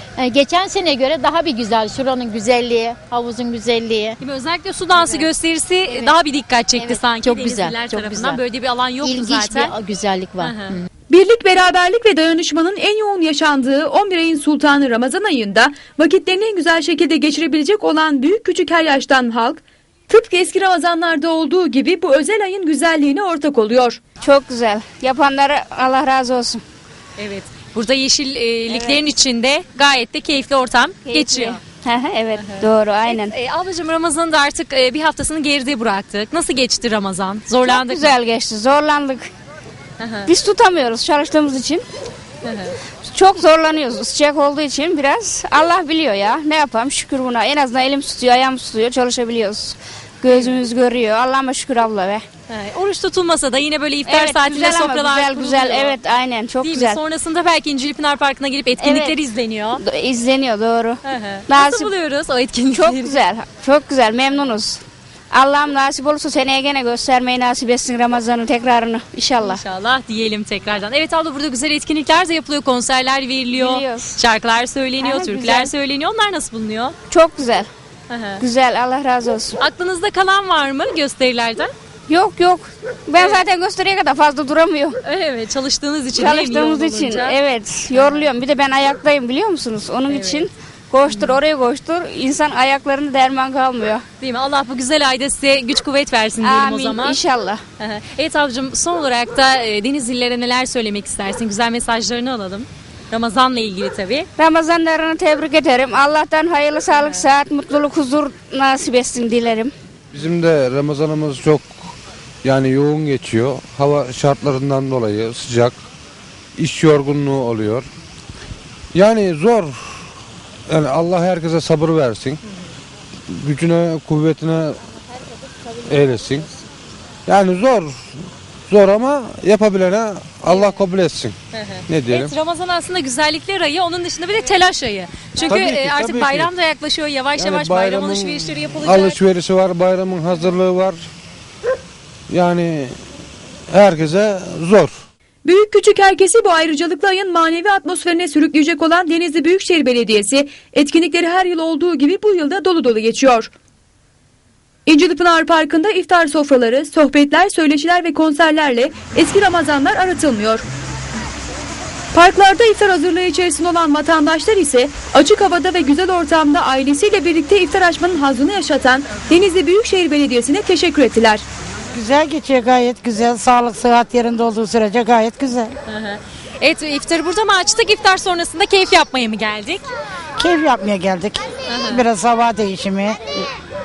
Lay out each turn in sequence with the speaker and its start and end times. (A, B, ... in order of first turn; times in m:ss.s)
0:00.2-0:04.2 A
0:04.2-0:09.7 B
0:04.9-0:05.3 A
0:05.9-0:06.1 A
0:06.7-0:08.4 A
0:09.0-0:10.9 A
0:10.4-0:10.8 B
0:11.1-0:24.0 C
0:24.2-0:26.6 D
0:27.2-0:31.6 B
0:28.7-0:29.0 D
0:31.1-0:33.3 D
0:32.3-0:38.1 B
0:37.6-0:39.3 D
0:40.0-0:40.3 B
0:40.3-0:41.8 D
0:42.4-0:42.7 B
0:43.1-0:52.2 D
0:52.5-0:56.0 B
0:54.0-0:57.0 D
0:56.6-0:59.8 B
0:58.8-0:59.2 D
0:59.7-1:01.9 D
1:01.0-1:03.2 B
1:02.7-1:09.6 D
1:09.4-1:16.9 B
1:13.5-1:14.1 D
1:15.0-1:15.7 D
1:17.1-1:17.7 D
1:18.1-1:18.4 B
1:18.4-1:19.6 D
1:19.6-1:21.7 B
1:22.1-1:25.0 D
1:23.2-1:23.4 B
1:25.0-1:27.3 B
1:26.1-1:34.0 D
1:27.9-1:28.2 B
1:30.1-1:30.4 B
1:31.1-1:31.4 B
1:34.2-1:37.2 B
1:36.4-1:37.6 D
1:37.8-1:44.3 B
1:44.4-1:49.7 D
1:50.1-1:51.7 E
1:52.4-1:55.8 E
1:56.6-1:57.8 E
1:58.9-1:59.8 E
2:00.7-2:02.4 E
2:03.3-2:04.8 E
2:05.9-2:06.5 E
2:07.3-2:08.1 E
2:08.7-2:11.3 E
2:10.5-2:10.8 B
2:11.5-2:19.2 B
2:11.9-2:12.3 E
2:15.4-2:16.5 E
2:17.4-2:21.0 E
2:22.3-2:22.9 E
2:23.7-2:24.9 E
2:25.4-2:33.5 C
2:34.8-2:40.6 C
2:42.1-2:51.4 C
2:51.9-2:55.7 F
2:55.9-2:59.8 B
3:00.4-3:03.4 F
3:01.7-3:02.0 B